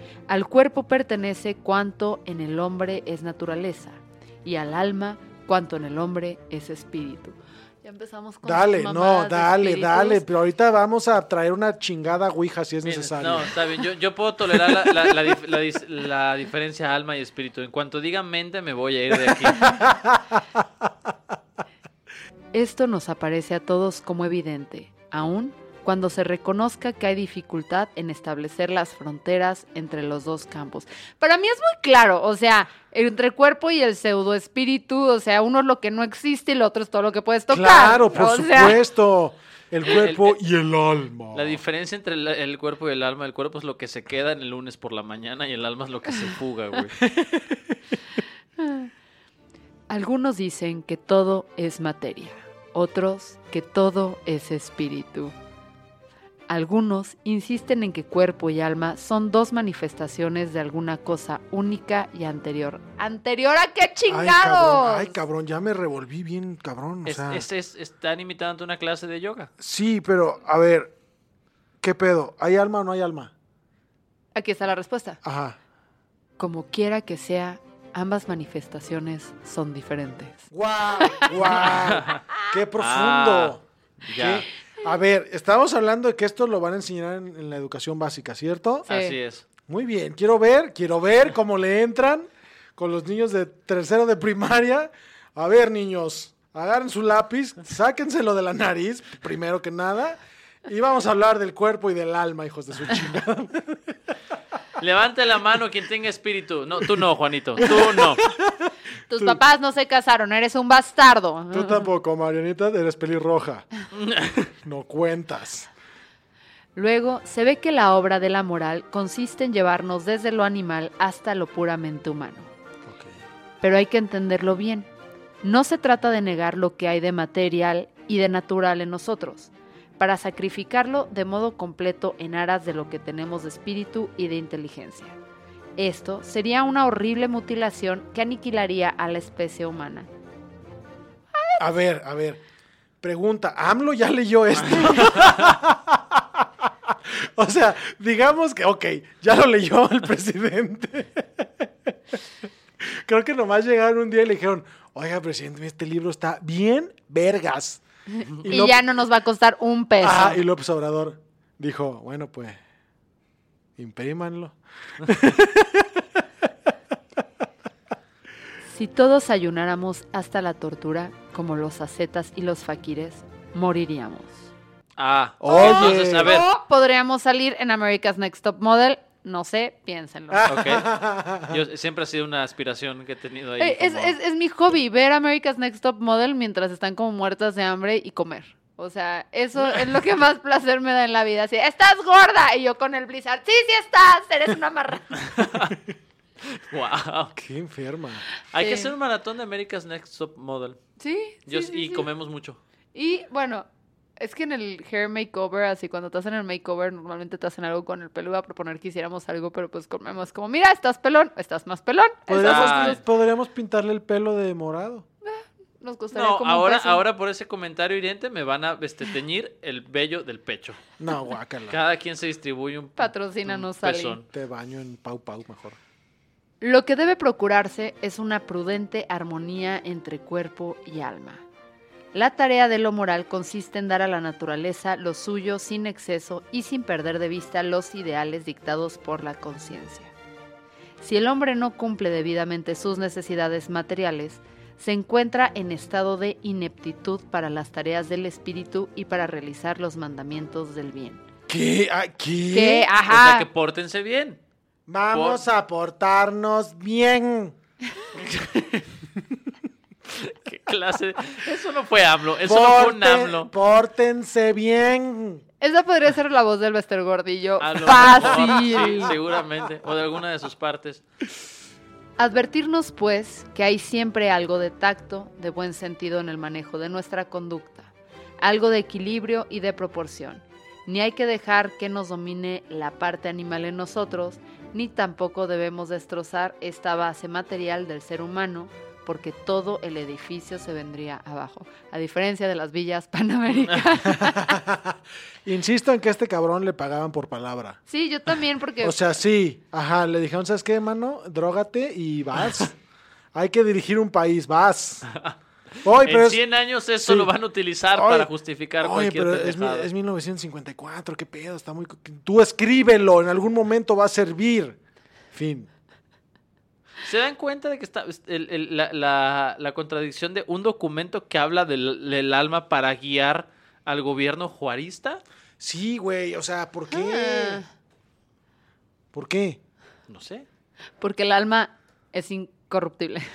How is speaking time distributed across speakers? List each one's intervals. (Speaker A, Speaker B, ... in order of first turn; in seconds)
Speaker A: 0.3-10.3, 22.5-38.8, 48.6-48.9, 49.9-55.4, 56.5-65.2, 74.3-75.2, 76.4-80.5, 81.0-81.5, 88.9-89.2, 109.1-111.9, 116.8-122.5, 123.6-124.9, 125.4-135.2, 135.8-140.1, 158.2-160.4, 168.7-174.5, 175.5-180.5, 183.6-195.1, 198.6-198.9, 201.0-202.1, 202.9-203.7, 204.2-213.0, 215.2-217.1, 223.0-224.2, 226.6-231.4, 232.1-240.1, 241.0-251.2, 252.5-253.5, 265.6-269.1, 272.2-294.6, 297.9-299.0, 326.9-327.6, 331.0-333.2
Speaker B: 8.4-13.6, 14.7-15.1, 19.3-20.6, 37.5-41.6, 47.1-47.8, 64.1-67.5, 69.6-70.9, 71.8-73.3, 75.2-75.6, 80.5-88.9, 89.7-104.0, 107.6-109.4, 111.5-113.7, 114.6-115.7, 122.9-123.2, 141.6-142.4, 143.0-151.7, 152.8-157.8, 158.4-158.8, 160.0-162.6, 163.8-166.1, 175.4-176.4, 180.3-181.6, 197.3-198.3, 212.3-215.1, 221.0-221.8, 224.2-225.8, 251.5-252.9, 254.9-257.6, 262.4-265.4, 294.1-297.8, 298.8-302.8, 303.3-305.1, 305.8-306.4, 307.0-307.3, 307.9-314.8, 315.3-315.7, 325.6-327.6, 329.1-329.6
Speaker C: 12.8-19.8, 39.9-40.4, 41.3-47.0, 67.1-69.5, 81.5-82.2, 82.8-84.5, 88.9-89.5, 104.8-108.2, 114.0-114.5, 145.1-145.5, 175.0-176.5, 180.5-180.9, 181.4-184.2, 195.3-195.8, 196.7-197.3, 198.5-200.8, 201.5-202.6, 212.3-213.0, 216.1-220.8, 221.7-224.3, 253.1-254.4, 255.1-255.4, 258.1-258.9, 260.1-263.5, 267.6-271.0, 306.0-309.9, 317.0-325.2, 330.1-330.5